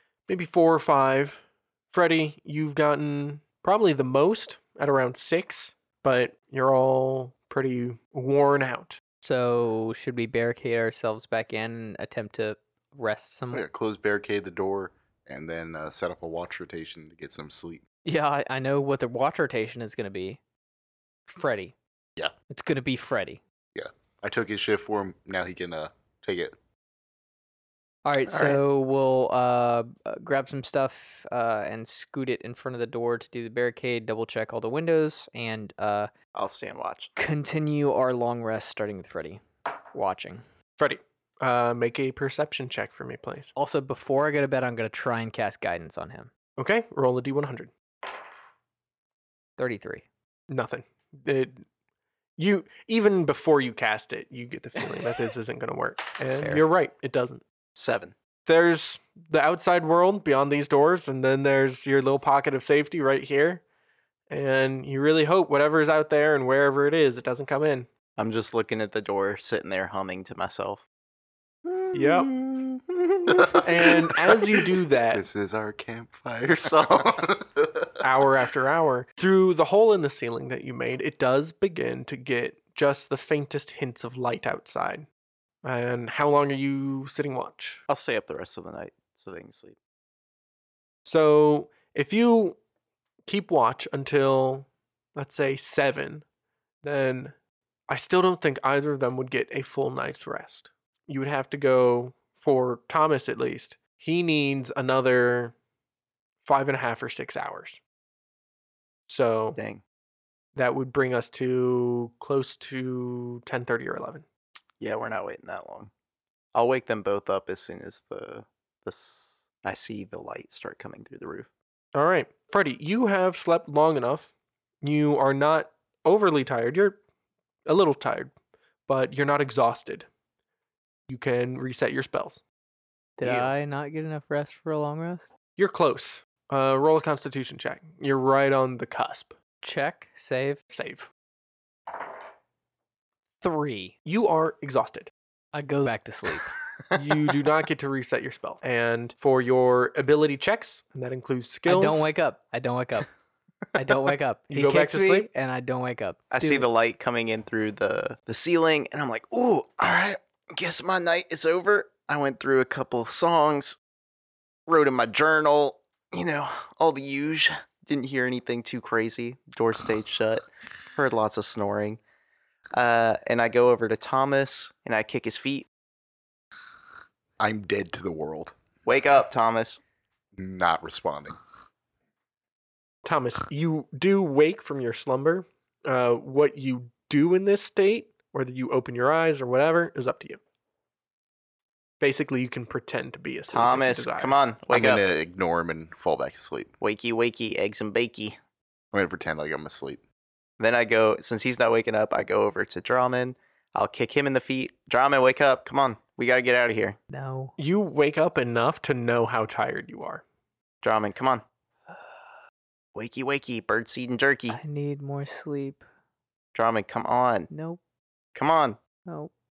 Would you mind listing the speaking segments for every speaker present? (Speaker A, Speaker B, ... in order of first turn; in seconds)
Speaker A: 0.3-9.0, 28.3-28.6, 40.8-43.5, 46.6-47.7, 50.5-51.6, 52.4-57.4, 58.5-63.6, 64.3-67.9, 71.9-72.3, 73.6-75.2, 78.0-85.1, 85.6-87.8, 91.0-92.6, 93.3-96.2, 96.8-97.3, 97.9-105.5, 106.4-107.8, 109.1-109.6, 110.5-114.2, 121.9-124.3, 124.8-127.0, 127.7-128.3, 128.9-130.1, 131.1-132.4, 135.6-139.3, 140.7-141.1, 144.0-145.1, 146.9-152.1, 154.5-155.3, 183.0-190.4, 192.0-194.4, 207.6-210.2
Speaker B: 9.2-13.7, 18.0-20.4, 21.3-21.7, 22.5-23.4, 28.1-36.1, 37.2-39.4, 39.9-40.4, 43.5-46.3, 49.6-50.0, 133.2-135.3, 139.6-140.6, 143.4-143.9, 145.5-146.5, 151.7-153.1, 153.7-156.7, 207.1-207.5, 214.5-215.8, 217.5-217.8
Speaker C: 13.5-17.8, 23.7-26.5, 75.1-77.9, 177.4-178.5, 180.4-181.3, 194.7-196.7, 198.9-200.0
Speaker D: 36.3-37.1, 57.7-58.1, 68.2-70.8, 71.6-73.9, 87.9-89.8, 109.5-109.8, 114.8-115.9, 116.5-121.5, 133.2-133.5, 156.3-163.8, 164.7-172.0, 172.7-175.7, 178.8-179.8, 193.5-195.0, 196.8-198.4, 200.6-207.0, 210.8-211.4, 212.9-214.6, 216.5-217.5, 218.3-218.8